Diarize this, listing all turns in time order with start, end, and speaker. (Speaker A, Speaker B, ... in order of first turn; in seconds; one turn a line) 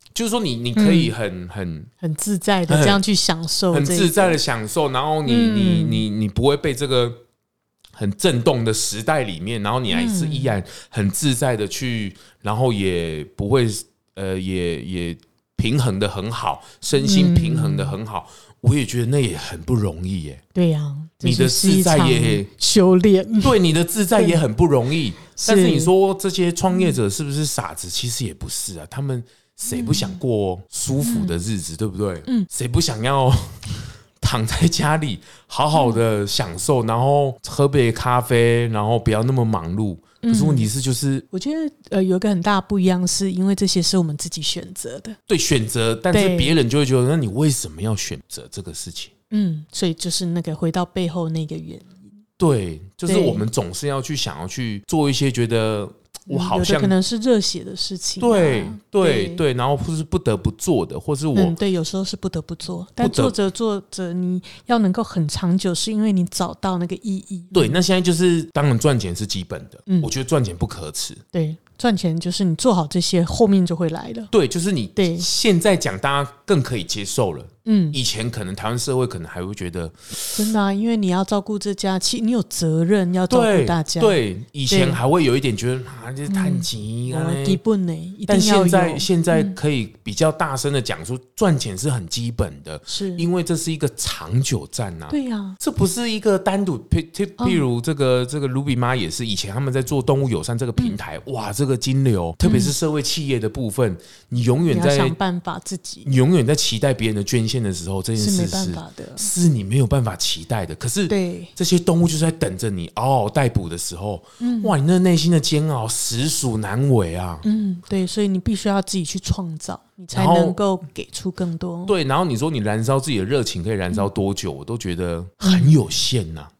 Speaker A: 0.1-1.9
Speaker B: 0.7-1.1
Speaker B: 2.0-4.4
Speaker A: 2.7-3.0
Speaker A: 3.7-7.2
Speaker B: 5.2-6.0
Speaker A: 8.0-20.4
Speaker B: 9.9-10.5
Speaker B: 17.0-17.9
Speaker B: 20.5-23.6
Speaker A: 21.2-22.5
Speaker A: 23.4-41.2
Speaker B: 24.1-24.4
Speaker B: 25.4-25.9
Speaker B: 26.7-27.0
Speaker B: 29.7-30.2
Speaker B: 31.0-31.3
Speaker B: 35.7-36.0
Speaker B: 40.2-40.7
Speaker B: 41.3-45.2
Speaker A: 45.3-49.1
Speaker B: 46.1-46.5
Speaker B: 49.3-52.1
Speaker A: 52.4-56.9
Speaker B: 53.0-53.5
Speaker B: 56.3-59.4
Speaker A: 58.2-61.5
Speaker B: 61.3-67.8
Speaker A: 63.0-63.3
Speaker A: 67.5-71.2
Speaker B: 71.3-74.3
Speaker A: 74.3-80.4
Speaker B: 75.0-75.2
Speaker B: 77.7-78.0
Speaker B: 80.3-85.0
Speaker A: 83.3-87.6
Speaker B: 86.3-89.6
Speaker A: 88.3-105.2
Speaker B: 92.9-93.2
Speaker B: 95.1-95.6
Speaker B: 97.4-97.6
Speaker B: 102.4-102.7
Speaker B: 104.7-106.1
Speaker A: 106.0-117.4
Speaker B: 108.2-109.3
Speaker B: 111.1-111.5
Speaker B: 114.4-114.7
Speaker B: 117.4-121.9
Speaker A: 120.1-120.6
Speaker A: 121.9-126.5
Speaker B: 125.4-125.7